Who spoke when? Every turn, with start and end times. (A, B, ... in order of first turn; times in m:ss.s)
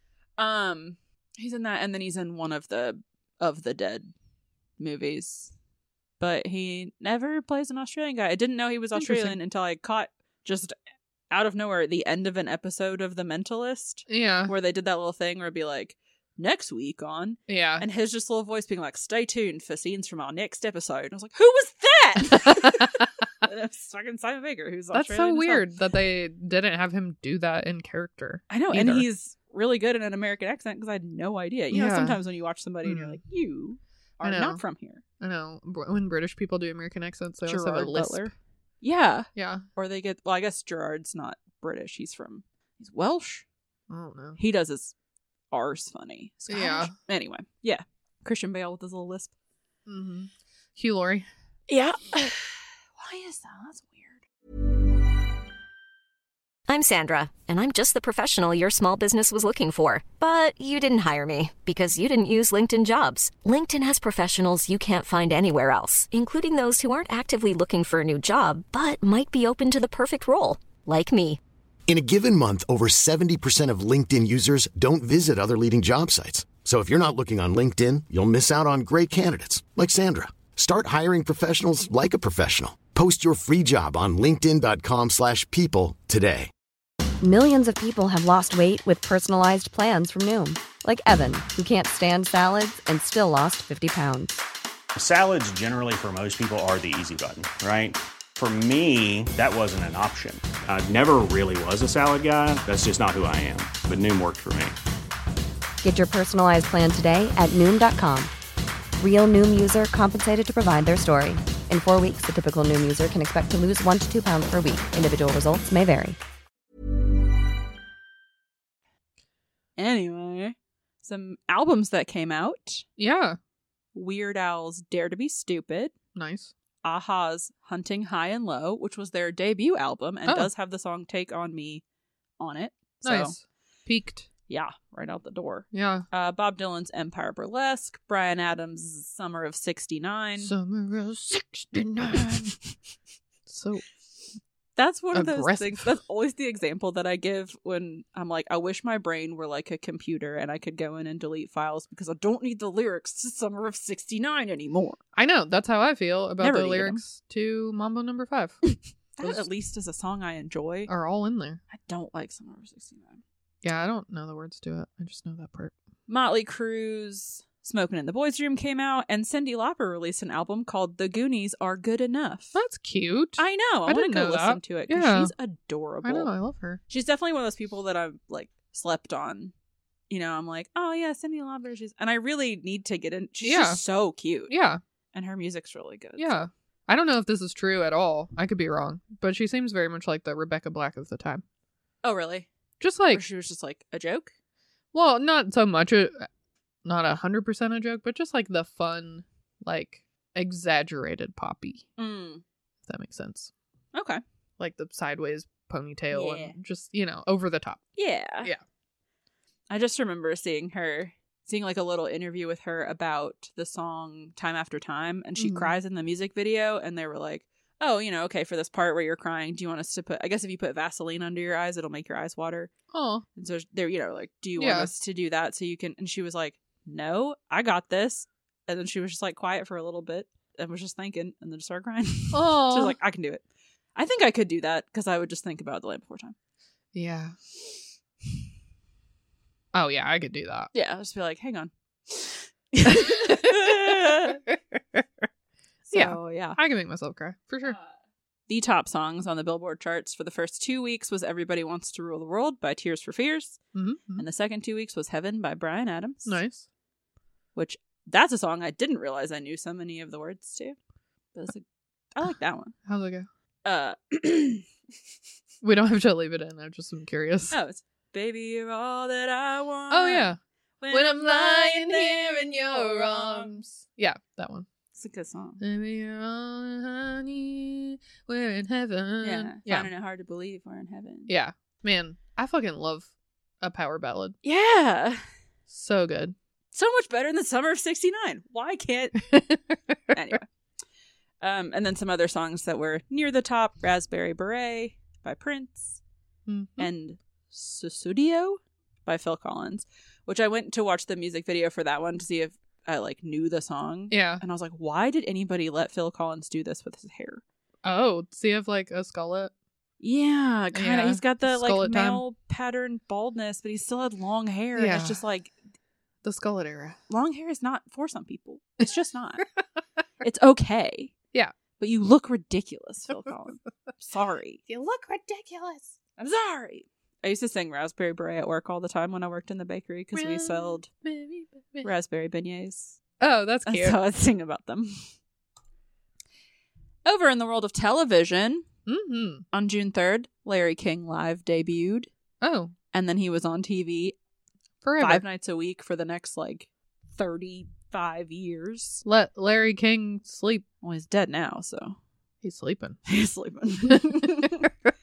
0:00.4-0:04.1 A
0:04.8-0:05.5 A
0:06.2-0:10.8 A
0:09.0-0:09.4 B
0:11.3-0:25.7 A
0:14.1-0:14.5 B
0:17.5-0:17.9 B
0:22.6-0:22.9 B
0:24.9-0:29.1 B
0:28.5-0:35.0 A
0:31.7-0:32.2 B
0:32.8-0:33.2 B
0:34.2-0:34.6 B
0:35.2-0:38.3 B
0:37.5-0:43.4 A
0:39.4-0:39.6 B
0:43.9-0:44.4 B
0:44.4-0:44.9 A
0:45.5-0:49.3 A
0:46.5-0:46.9 B
0:49.9-0:51.3 B
0:51.7-0:54.2 A
0:56.7-1:11.4 C
1:11.9-1:26.5 D
1:27.2-1:34.4 E
1:35.0-1:44.8 F
1:45.8-1:48.3 E
1:49.0-1:56.2 E
1:59.8-2:02.8 A
2:03.0-2:03.4 B
2:03.9-2:05.9 A
2:06.2-2:06.5 B
2:06.8-2:11.8 A
2:12.4-2:13.3 A
2:13.0-2:14.3 B
2:14.5-2:20.5 A
2:15.7-2:16.1 B
2:20.4-2:22.5 B
2:23.5-2:23.8 B
2:24.8-2:35.0 A
2:25.1-2:25.9 B
2:35.2-2:38.6 B
2:36.4-2:37.0 A
2:39.2-2:40.9 A
2:40.9-2:41.6 B
2:41.7-2:43.2 A
2:43.6-2:45.7 B
2:46.1-2:52.6 A
2:52.5-2:55.3 B
2:53.4-2:56.3 A
2:56.0-2:56.8 B
2:56.9-2:59.5 A
3:00.1-3:04.5 A
3:03.4-3:03.8 B
3:04.5-3:04.8 B
3:05.1-3:06.5 A
3:06.2-3:11.4 B
3:12.0-3:12.5 A
3:12.8-3:13.2 B
3:13.1-3:14.3 A
3:14.9-3:16.3 B
3:16.8-3:21.9 B
3:22.0-3:22.4 A
3:22.9-3:23.5 B
3:23.9-3:24.2 A
3:24.6-3:27.8 B
3:26.1-3:26.5 A
3:28.0-3:28.5 A
3:29.7-3:42.7 A
3:35.4-3:35.7 B
3:42.9-3:43.2 B
3:43.4-3:53.4 A
3:44.6-3:44.9 B
3:52.3-3:53.0 B
3:54.0-3:56.4 A
3:56.9-3:57.4 B
3:59.7-4:00.7 B
4:00.7-4:04.4 A
4:02.8-4:05.2 B
4:05.9-4:06.6 A
4:05.9-4:07.8 B
4:07.6-4:07.9 A
4:08.5-4:13.6 A
4:13.7-4:14.2 B
4:14.2-4:16.4 A
4:16.2-4:16.7 B
4:17.5-4:20.8 A
4:21.3-4:22.7 A
4:22.8-4:23.3 B
4:23.6-4:24.7 A
4:25.6-4:27.6 B
4:27.5-4:33.6 A
4:29.9-4:30.4 B
4:30.9-4:34.7 B
4:34.9-4:35.6 A
4:35.6-4:39.9 B
4:39.2-4:41.3 A
4:41.3-4:44.4 B
4:44.4-4:45.2 A
4:45.7-4:46.4 B
4:46.7-4:49.3 A
4:49.3-4:50.0 B
4:50.1-4:50.5 A
4:51.4-4:56.0 A
4:56.5-4:56.9 B
4:56.8-5:07.4 A
5:04.1-5:04.4 B
5:07.8-5:09.5 B
5:10.0-5:15.5 A
5:10.7-5:12.2 B
5:14.8-5:15.2 B
5:16.2-5:17.0 B
5:17.1-5:19.5 A
5:20.2-5:21.1 A
5:21.8-5:24.6 A
5:24.7-5:26.0 B
5:26.2-5:30.9 A
5:30.1-5:31.9 B
5:31.8-5:33.0 A
5:33.2-5:34.0 B
5:33.7-5:35.1 A
5:37.0-5:38.7 A
5:38.8-5:39.4 B
5:39.5-5:42.1 A
5:42.4-5:42.7 B
5:42.9-5:44.2 A
5:44.8-5:45.2 B
5:45.0-5:49.0 A
5:49.0-5:50.6 B
5:50.8-5:52.0 A
5:52.4-5:53.0 B
5:53.1-5:54.7 A
5:53.8-5:54.7 B